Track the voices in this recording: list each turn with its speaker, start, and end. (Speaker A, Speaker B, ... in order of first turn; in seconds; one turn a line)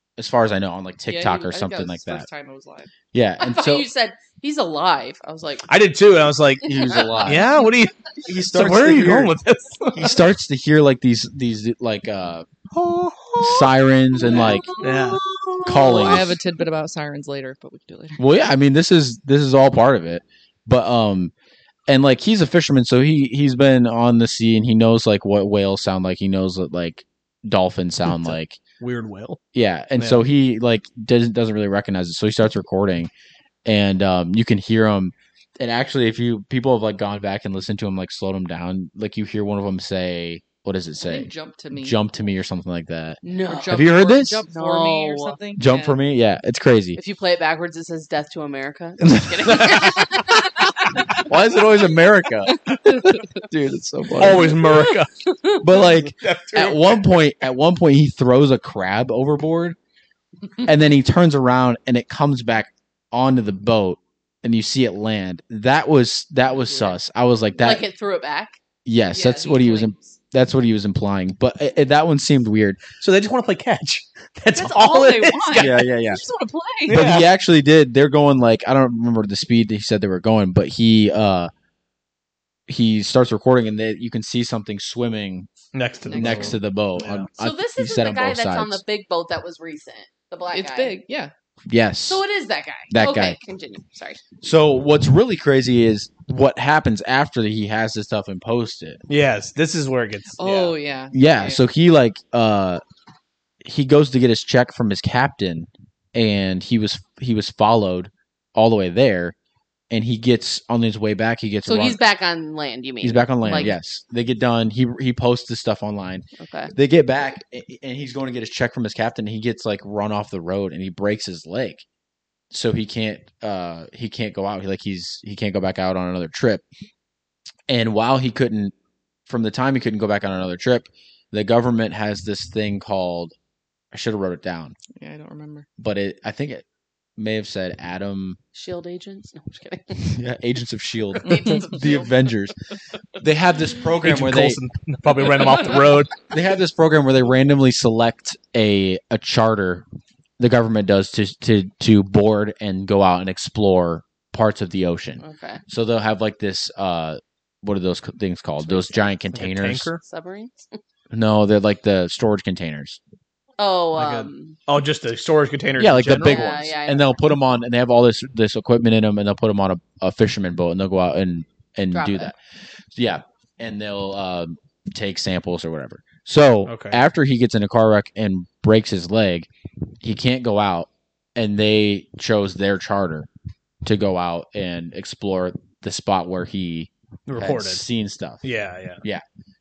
Speaker A: 0.2-2.3
Speaker B: 1.1-2.9
Speaker A: 3.1-3.9
Speaker C: 3.4-5.7
Speaker D: 5.7-10.2
Speaker A: 6.6-7.5
Speaker C: 6.7-7.2
Speaker A: 8.2-9.3
Speaker A: 9.9-12.4
Speaker D: 12.7-13.7
Speaker A: 13.4-14.7
Speaker C: 14.3-15.1
Speaker D: 14.7-16.0
Speaker A: 15.6-16.4
Speaker B: 15.6-18.2
Speaker A: 18.2-21.3
Speaker A: 21.9-28.6
Speaker D: 28.1-29.4
Speaker A: 29.5-33.1
Speaker D: 30.0-30.2
Speaker A: 33.6-44.4
Speaker B: 41.0-42.0
Speaker C: 43.2-43.9
Speaker B: 43.5-46.0
Speaker C: 44.5-45.4
Speaker A: 45.6-47.0
Speaker C: 47.0-50.7
Speaker A: 49.1-50.1
Speaker A: 51.2-54.6
Speaker D: 54.2-55.1
Speaker A: 55.6-59.8
Speaker D: 56.2-57.0
Speaker A: 60.6-67.8
Speaker B: 66.6-66.9
Speaker C: 67.6-68.6
Speaker A: 68.8-72.8
Speaker B: 69.1-70.0
Speaker D: 73.0-75.8
Speaker B: 74.5-77.0
Speaker A: 75.5-76.2
Speaker D: 76.9-77.3
Speaker A: 76.9-81.5
Speaker A: 82.7-85.5
Speaker D: 85.7-87.3
Speaker B: 86.1-86.5
Speaker A: 86.1-88.8
Speaker C: 87.4-91.0
Speaker B: 90.5-91.3
Speaker A: 91.7-92.2
Speaker C: 92.0-94.2
Speaker A: 92.9-93.4
Speaker A: 94.4-99.0
Speaker D: 99.1-100.8
Speaker B: 100.4-101.6
Speaker A: 101.1-102.8
Speaker A: 103.6-109.3
Speaker A: 109.9-112.0
Speaker C: 111.6-113.8
Speaker A: 113.0-121.8
Speaker C: 116.4-116.7
Speaker A: 122.5-126.6
Speaker A: 127.7-128.7
Speaker A: 129.3-133.3
Speaker A: 133.9-134.8
Speaker B: 134.9-135.7
Speaker A: 135.8-136.6
Speaker A: 137.2-138.4
Speaker C: 138.5-140.1
Speaker A: 140.0-142.5
Speaker C: 141.2-142.1
Speaker B: 141.3-141.6
Speaker A: 143.2-144.6
Speaker D: 144.0-146.1
Speaker A: 146.3-149.8
Speaker A: 150.4-159.9
Speaker C: 155.2-155.6
Speaker D: 159.3-160.0
Speaker C: 160.0-160.8
Speaker A: 161.1-163.0
Speaker C: 163.6-164.6
Speaker D: 163.9-166.4
Speaker A: 165.8-172.3
Speaker C: 166.2-167.2
Speaker C: 171.9-172.3
Speaker A: 172.9-179.5
Speaker D: 176.7-177.0
Speaker A: 180.0-183.3
Speaker A: 183.8-188.4
Speaker D: 187.3-187.8
Speaker D: 188.4-189.0